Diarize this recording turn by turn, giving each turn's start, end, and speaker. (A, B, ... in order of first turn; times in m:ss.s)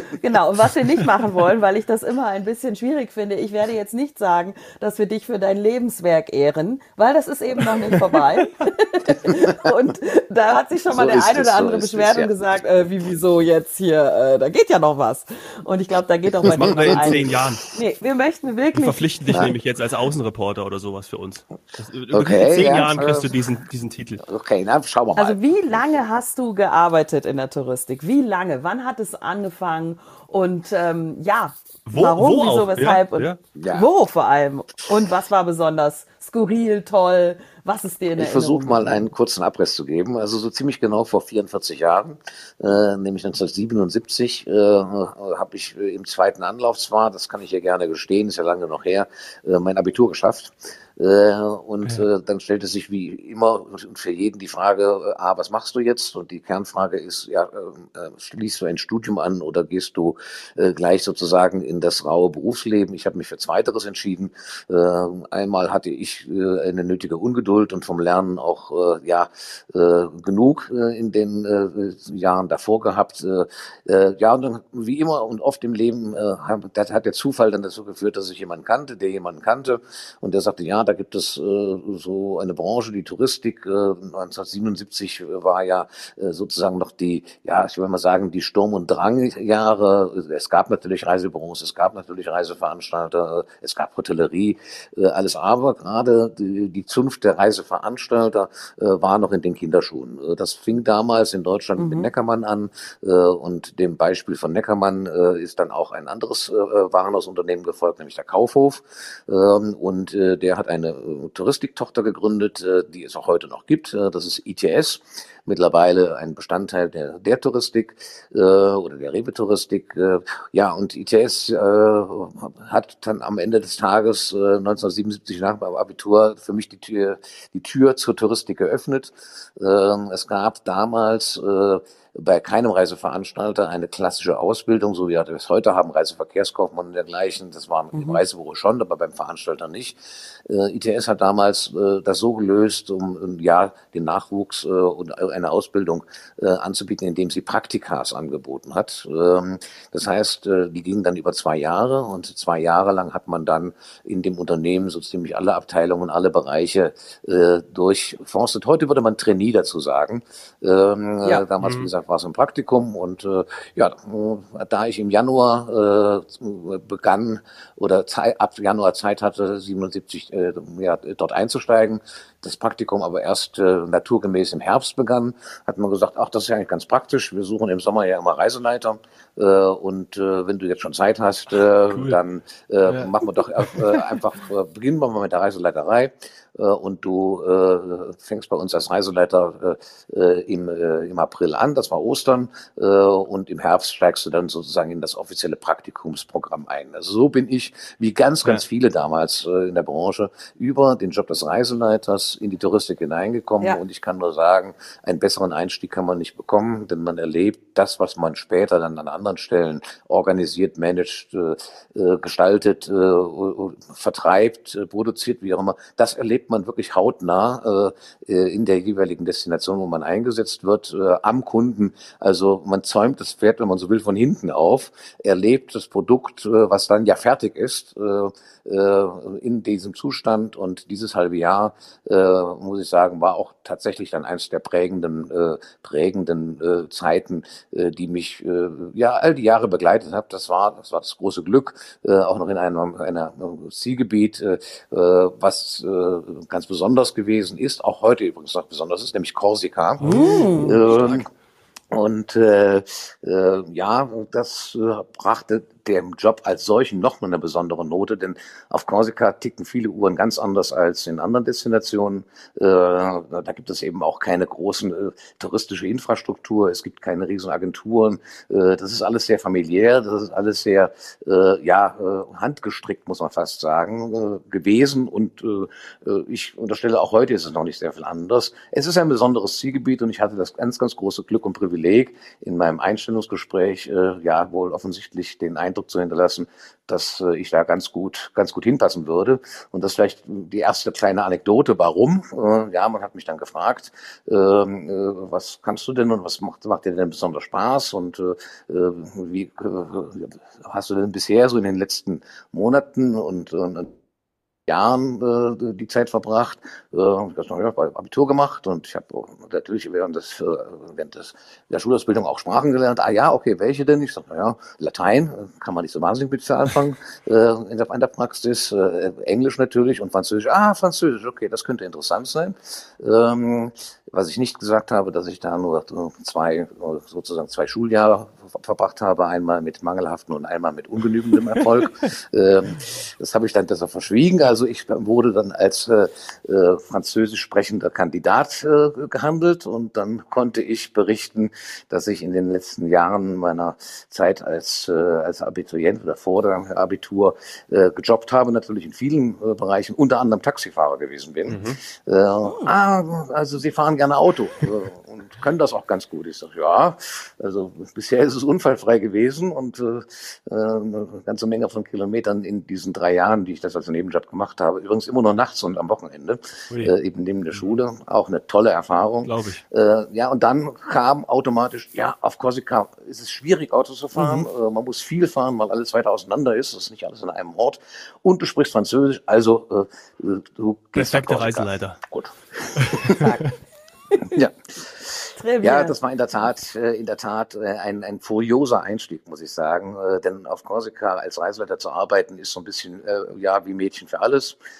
0:00.2-0:19.1 A
0:09.1-0:09.7 B
0:10.9-0:12.3 B
0:16.4-0:17.2 B
0:16.5-0:17.6 C
0:18.7-0:24.2 C
0:19.3-0:19.5 B
0:22.1-0:23.5 B
0:24.2-0:25.8 B
0:25.1-0:39.0 A
0:31.8-0:33.4 C
0:33.6-0:33.9 B
0:38.2-4:11.3 B
1:41.8-1:42.1 A
2:41.6-2:41.9 C
3:02.9-3:04.0 C
4:10.0-4:11.2 C
4:10.0-4:10.8 A
4:11.9-5:03.9 B
5:04.7-6:23.3 B
5:51.5-5:51.8 C
6:09.2-6:09.6 C
6:14.2-6:14.4 C
6:21.0-6:22.0 C
6:22.8-6:23.3 C
6:23.1-6:23.5 A
6:24.2-6:34.6 B
6:25.4-6:25.9 A